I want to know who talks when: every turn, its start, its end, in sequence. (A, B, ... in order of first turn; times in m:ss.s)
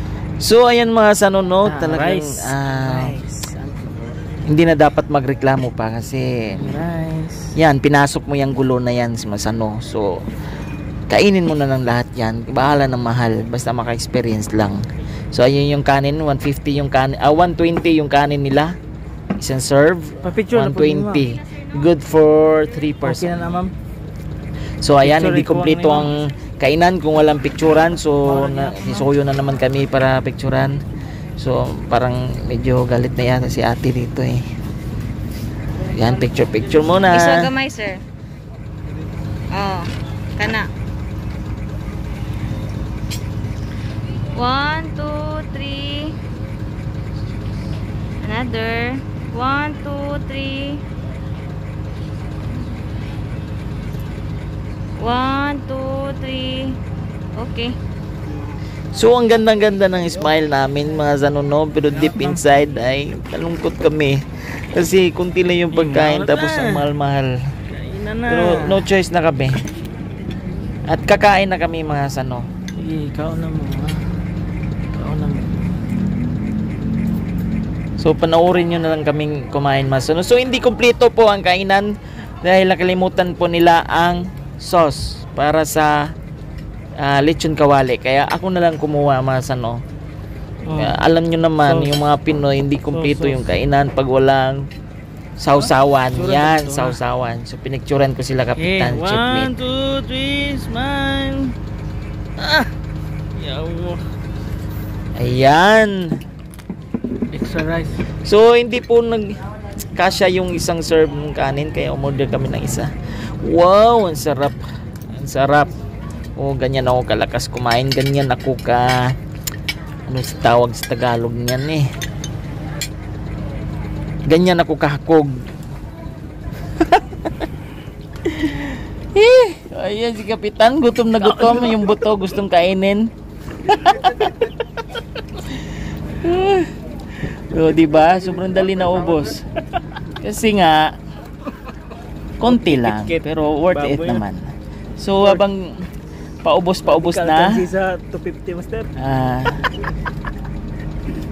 0:00.4-0:03.2 A
0:01.6-0:04.1 B
0:04.4-0:06.7 A
0:06.6-0:07.5 B
0:07.6-0:10.2 A
0:11.1-0:18.7 A
0:19.4-0:23.6 A
0:20.2-0:21.3 B
0:23.0-0:23.7 B
0:24.8-0:30.8 A
0:25.0-0:26.1 B
0:28.2-0:29.1 B
0:31.4-0:34.4 A
0:35.9-0:37.5 A
0:35.9-0:37.0 B
0:37.1-0:38.0 C
0:39.5-0:40.7 C
0:44.3-0:46.2 C
0:48.2-0:50.8 C
0:55.0-0:56.8 C
0:57.4-0:57.8 C
0:58.9-1:07.3 A
1:01.9-1:02.4 B
1:05.7-1:06.9 B
1:07.7-1:08.8 B
1:08.3-1:09.5 A
1:10.9-1:12.5 A
1:12.8-1:14.0 B
1:14.9-1:15.6 B
1:18.0-1:26.1 A
1:27.0-1:29.8 A
1:30.6-1:31.0 B
1:30.7-1:34.6 A
1:31.6-1:31.9 B
1:32.9-1:33.4 B
1:35.4-1:39.5 A
1:35.6-1:37.0 B
1:38.6-1:41.5 B
1:42.4-1:42.7 B
1:43.4-1:44.0 B
1:45.2-1:46.1 A
1:47.3-1:47.9 B
1:48.2-1:49.4 A
1:49.9-1:52.9 A
1:53.4-1:54.6 A
1:55.1-1:55.8 A
1:56.4-1:59.0 A
2:00.1-2:01.8 A
2:04.3-2:05.3 A
2:08.2-2:13.1 A
2:11.2-2:11.9 B
2:13.6-2:14.5 A
2:15.4-2:15.6 A
2:16.2-2:16.7 A
2:17.2-2:19.4 A
2:18.2-2:19.3 B
2:20.2-2:20.9 A
2:22.4-2:25.7 A
2:22.4-2:24.2 B
2:25.2-2:25.4 B
2:26.4-2:27.6 A
2:26.8-2:28.9 B
2:29.0-2:29.6 A